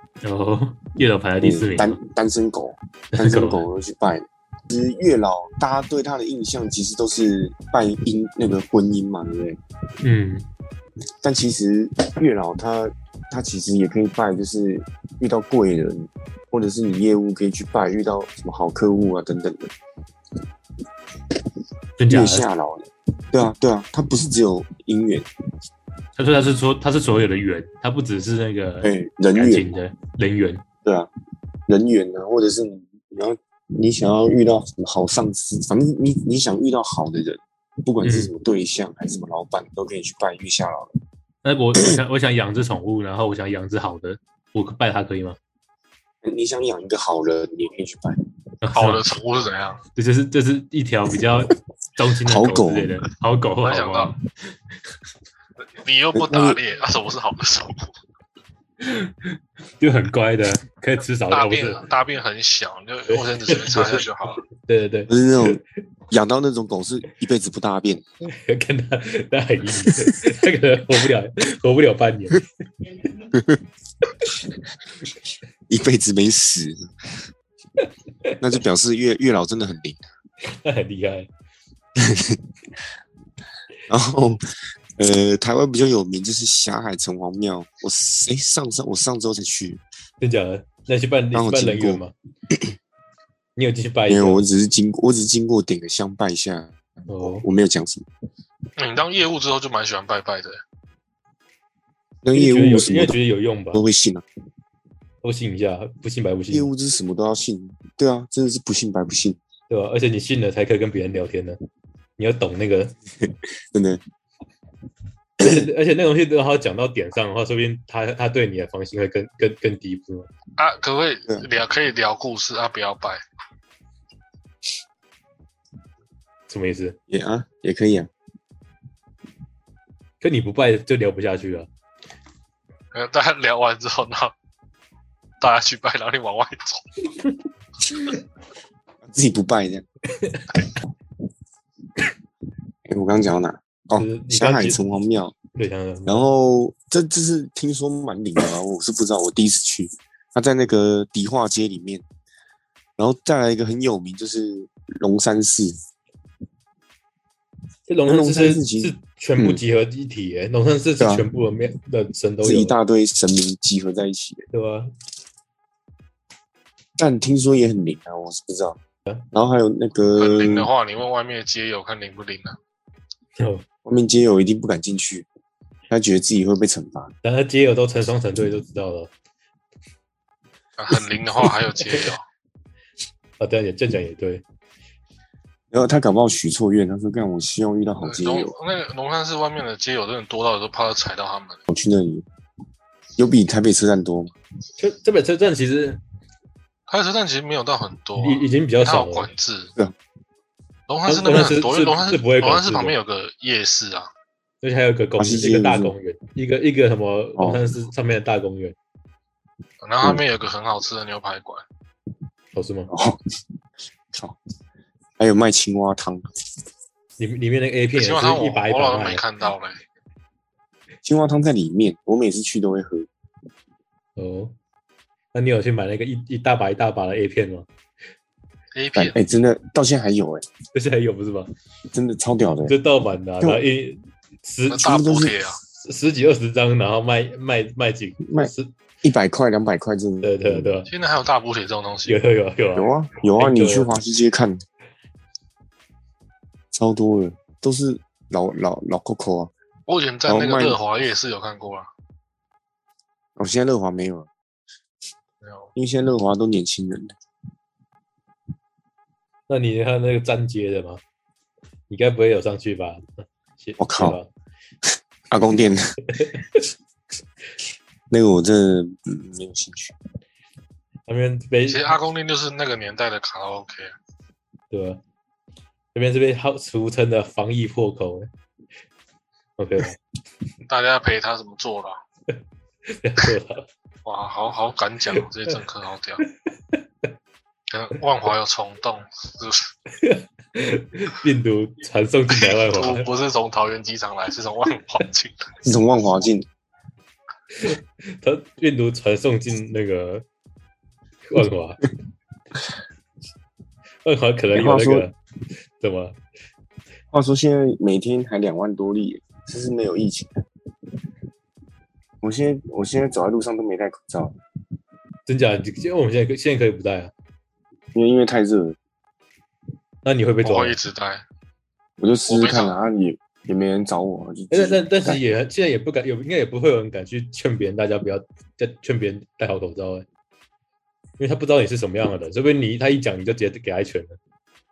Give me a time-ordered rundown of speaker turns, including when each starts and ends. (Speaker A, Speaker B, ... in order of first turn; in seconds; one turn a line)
Speaker A: 0.2-2.0
Speaker B: 1.4-9.6
Speaker A: 3.1-3.6
Speaker A: 10.0-10.5
Speaker B: 11.2-19.7
Speaker A: 22.0-22.4
Speaker B: 22.1-25.3
Speaker A: 26.2-30.6
Speaker B: 28.8-29.7
Speaker B: 30.8-31.1
Speaker B: 31.7-40.9
Speaker A: 38.0-38.3
Speaker A: 41.4-45.4
Speaker B: 46.2-48.2
Speaker A: 48.6-49.0
Speaker C: 48.7-49.8
Speaker A: 50.0-54.1
Speaker B: 52.2-53.0
Speaker C: 53.6-54.1
Speaker C: 55.8-57.9
Speaker B: 56.1-56.6
Speaker A: 58.8-61.8
Speaker C: 61.3-64.4
Speaker A: 63.1-64.0
Speaker A: 64.7-65.5
Speaker B: 65.1-68.0
Speaker A: 68.2-72.4
Speaker B: 73.2-73.6
Speaker B: 75.7-77.2
Speaker B: 78.4-80.0
Speaker A: 80.4-81.3
Speaker B: 82.0-82.4
Speaker B: 83.9-84.4
Speaker B: 85.0-89.8
Speaker A: 90.2-92.1
Speaker B: 91.3-92.7
Speaker A: 93.5-94.4
Speaker B: 94.1-98.1
Speaker A: 97.1-97.5
Speaker C: 98.8-100.6
Speaker B: 102.2-103.2
Speaker A: 102.3-103.8
Speaker B: 103.7-104.2
Speaker A: 105.2-106.7
Speaker B: 106.5-109.4
Speaker A: 109.7-111.6
Speaker A: 112.2-112.9
Speaker B: 113.2-114.0
Speaker A: 115.4-120.3
Speaker C: 120.6-123.2
Speaker A: 126.5-127.0
Speaker B: 127.1-128.1
Speaker A: 130.2-131.7
Speaker C: 132.9-134.3
Speaker C: 135.4-136.8
Speaker B: 139.0-139.8
Speaker A: 140.2-140.5
Speaker B: 142.8-145.3
Speaker A: 143.9-144.8
Speaker A: 145.6-146.3
Speaker B: 146.1-152.0
Speaker B: 153.0-155.8
Speaker A: 157.9-162.7
Speaker B: 158.1-159.6
Speaker B: 161.0-161.2
Speaker B: 162.4-164.4
Speaker A: 164.5-164.9
Speaker B: 167.0-168.8
Speaker B: 169.3-170.7
Speaker C: 170.2-172.6
Speaker A: 173.4-173.6
Speaker B: 173.8-175.3
Speaker B: 175.9-177.1
Speaker A: 177.2-179.1
Speaker C: 180.8-182.2
Speaker A: 183.4-184.4
Speaker B: 185.7-188.5
Speaker C: 188.0-191.6
Speaker B: 191.7-192.2
Speaker B: 193.2-194.3
Speaker A: 194.8-196.0
Speaker C: 196.9-199.7
Speaker A: 198.2-199.3
Speaker C: 200.9-204.1
Speaker A: 201.1-202.9
Speaker A: 204.6-208.8
Speaker B: 205.2-205.9
Speaker B: 207.4-207.7
Speaker C: 209.8-211.6
Speaker A: 212.5-212.9
Speaker B: 212.9-213.2
Speaker B: 215.2-216.2
Speaker A: 217.2-219.2
Speaker C: 217.9-219.8
Speaker B: 221.0-223.1
Speaker A: 224.2-224.5
Speaker A: 225.3-227.7
Speaker C: 228.7-229.2
Speaker B: 228.9-230.4
Speaker A: 230.7-231.5
Speaker B: 231.9-232.7
Speaker A: 232.7-234.9
Speaker C: 234.7-235.6
Speaker B: 234.8-235.4
Speaker A: 235.8-238.7
Speaker B: 238.2-240.7
Speaker A: 240.2-240.9
Speaker C: 240.9-242.2
Speaker A: 242.1-243.9
Speaker B: 242.7-244.6
Speaker B: 246.7-249.5
Speaker C: 249.9-251.9
Speaker B: 250.3-250.8
Speaker B: 253.4-254.3
Speaker C: 255.4-255.7
Speaker B: 255.8-257.1
Speaker A: 259.5-261.0
Speaker A: 261.9-264.3
Speaker B: 263.8-264.2
Speaker B: 264.9-265.9
Speaker A: 266.1-266.6
Speaker B: 268.1-269.9
Speaker A: 271.1-271.9
Speaker C: 271.7-273.9
Speaker A: 274.7-275.0
Speaker A: 275.9-278.3
Speaker A: 279.6-280.0
Speaker C: 280.7-282.0
Speaker A: 282.9-283.7
Speaker C: 284.1-286.2
Speaker C: 287.7-289.7
Speaker A: 289.9-293.1
Speaker C: 292.3-295.4
Speaker B: 295.6-296.4
Speaker A: 297.6-300.2
Speaker A: 301.2-301.8
Speaker A: 304.0-305.1
Speaker B: 304.5-305.1
Speaker A: 305.8-306.2
Speaker B: 307.1-310.4
Speaker B: 312.2-314.3
Speaker A: 315.2-317.1
Speaker B: 317.9-318.8
Speaker A: 320.0-320.8
Speaker C: 320.4-321.2
Speaker B: 322.0-325.2
Speaker C: 322.3-322.8
Speaker A: 324.5-330.1
Speaker A: 331.2-334.2